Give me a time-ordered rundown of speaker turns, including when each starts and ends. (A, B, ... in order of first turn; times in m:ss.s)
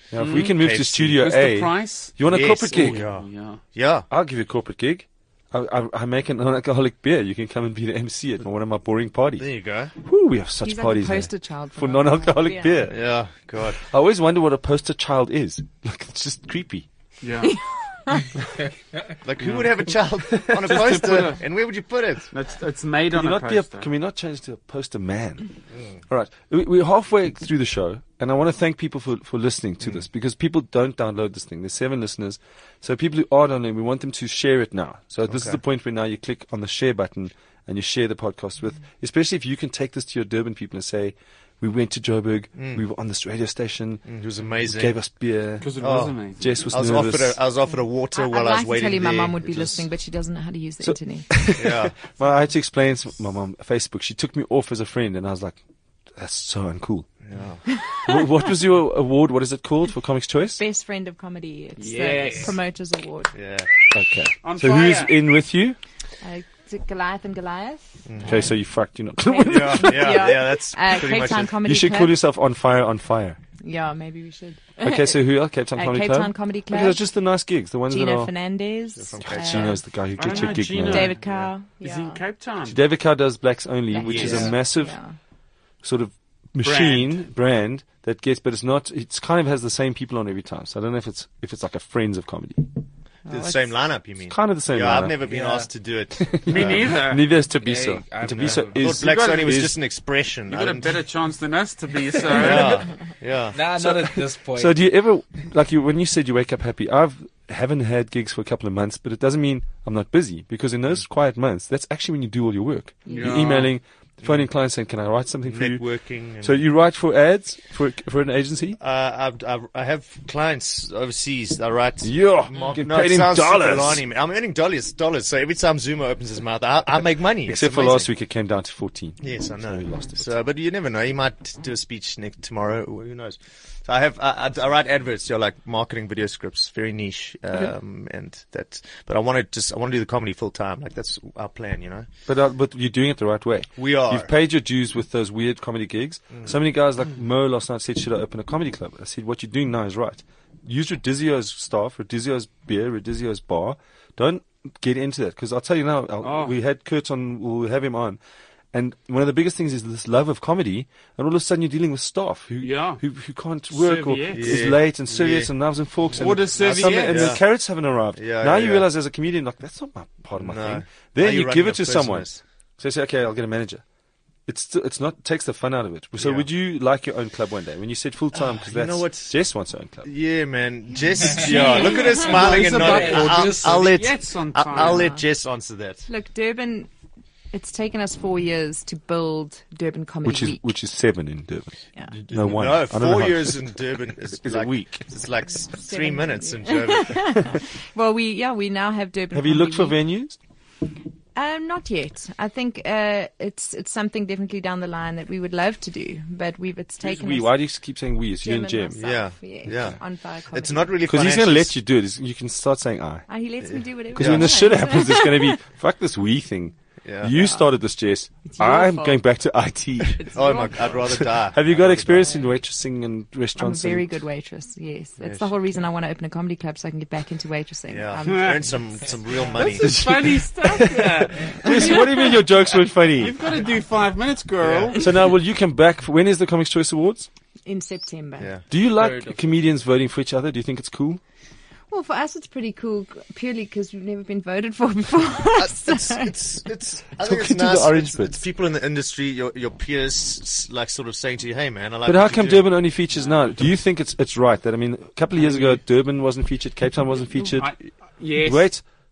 0:00.1-0:03.0 A
0:00.2-0:00.6 B
0:00.3-0:01.2 C
0:01.2-0:03.6 B
0:02.3-0:04.1 C
0:04.1-0:09.5 A
0:09.4-0:09.9 C
0:10.0-0:13.0 A
0:10.6-0:12.9 D
0:12.9-0:13.8 C
0:13.8-0:16.9 A
0:17.2-0:17.5 B
0:17.5-0:18.3 D
0:19.2-0:22.3 C
0:19.4-0:19.7 B
0:20.6-0:21.4 B
0:22.3-0:23.9 B
0:23.1-0:25.5 A
0:26.1-0:44.1 A
0:35.3-0:35.6 C
0:42.6-0:42.8 C
0:44.1-0:44.9 C
0:44.6-0:47.4 A
0:45.6-0:46.4 B
0:45.8-0:49.8 C
0:48.1-0:51.5 D
0:50.8-0:55.6 A
0:51.6-0:52.0 C
0:56.2-0:57.1 A
0:57.3-0:57.6 C
0:57.8-0:58.0 D
0:58.0-1:00.6 A
1:00.6-1:03.4 D
1:01.8-1:02.6 B
1:03.4-1:03.7 C
1:03.9-1:05.8 A
1:04.4-1:05.2 B
1:06.2-1:08.5 D
1:08.1-1:08.5 C
1:08.2-1:10.4 A
1:09.2-1:12.2 D
1:09.5-1:11.6 C
1:11.6-1:13.4 A
1:13.6-1:15.2 D
1:14.8-1:18.3 A
1:15.7-1:17.0 D
1:17.9-1:22.2 D
1:19.0-1:19.8 C
1:19.2-1:21.1 A
1:20.2-1:22.8 B
1:22.6-1:25.0 A
1:23.9-1:25.2 D
1:24.1-1:24.6 C
1:25.8-1:32.7 A
1:26.6-1:27.2 B
1:33.3-1:33.8 D
1:33.3-1:36.9 C
1:34.3-1:35.2 A
1:35.2-1:35.7 E
1:36.2-1:39.8 A
1:36.5-1:37.2 B
1:37.6-1:38.9 E
1:38.8-1:41.0 C
1:39.2-1:39.5 B
1:40.5-1:42.8 B
1:42.3-1:43.6 C
1:43.5-1:44.8 E
1:43.8-1:55.8 A
1:53.1-1:53.4 D
1:53.1-1:53.7 B
1:55.5-1:56.6 C
1:56.4-1:58.8 A
1:58.8-2:08.1 C
2:02.0-2:04.0 A
2:07.4-2:10.5 A
2:09.2-2:22.1 C
2:22.3-2:38.2 A
2:23.8-2:24.3 C
2:36.2-2:36.6 B
2:38.7-2:52.3 A
2:42.6-2:43.0 B
2:43.7-2:44.7 B
2:44.3-2:45.5 C
2:46.1-2:47.4 C
2:46.2-2:47.3 B
2:48.2-2:48.8 C
2:50.4-2:52.4 C
2:52.8-2:53.8 A
2:54.5-3:00.1 A
2:56.2-2:56.5 C
2:58.3-2:59.3 C
3:00.0-3:06.1 C
3:01.3-3:01.7 E
3:01.3-3:05.1 B
3:01.6-3:02.3 D
3:02.6-3:03.9 E
3:04.7-3:05.2 D
3:06.1-3:06.9 D
3:07.5-3:10.6 D
3:10.2-3:13.8 A
3:12.3-3:17.6 C
3:14.3-3:15.0 A
3:15.7-3:20.0 D
3:19.3-3:20.4 A
3:21.4-3:27.5 D
3:27.0-3:29.0 A
3:28.4-3:31.0 D
3:29.0-3:31.7 C
3:31.1-3:33.3 A
3:33.3-3:35.6 D
3:33.6-3:34.7 C
3:34.2-3:40.2 A
3:37.0-3:37.3 C
3:38.5-3:39.2 D
3:40.1-3:40.9 D
3:40.3-3:42.4 C
3:41.0-3:44.1 A
3:43.6-3:48.7 D
3:45.2-3:45.5 C
3:47.9-3:50.0 C
3:48.3-3:48.6 B
3:49.5-3:52.0 B
3:49.8-3:53.4 A
3:51.7-3:52.0 D
3:53.2-3:55.1 B
3:54.6-3:55.0 C
3:55.0-3:57.3 A
3:57.6-3:58.5 D
3:58.7-4:01.2 A
3:59.0-3:59.7 E
4:01.9-4:06.4 D
4:05.6-4:12.8 C
4:07.2-4:08.4 A
4:12.0-4:17.8 A
4:15.4-4:15.8 B
4:17.3-4:18.7 B
4:18.3-4:18.8 A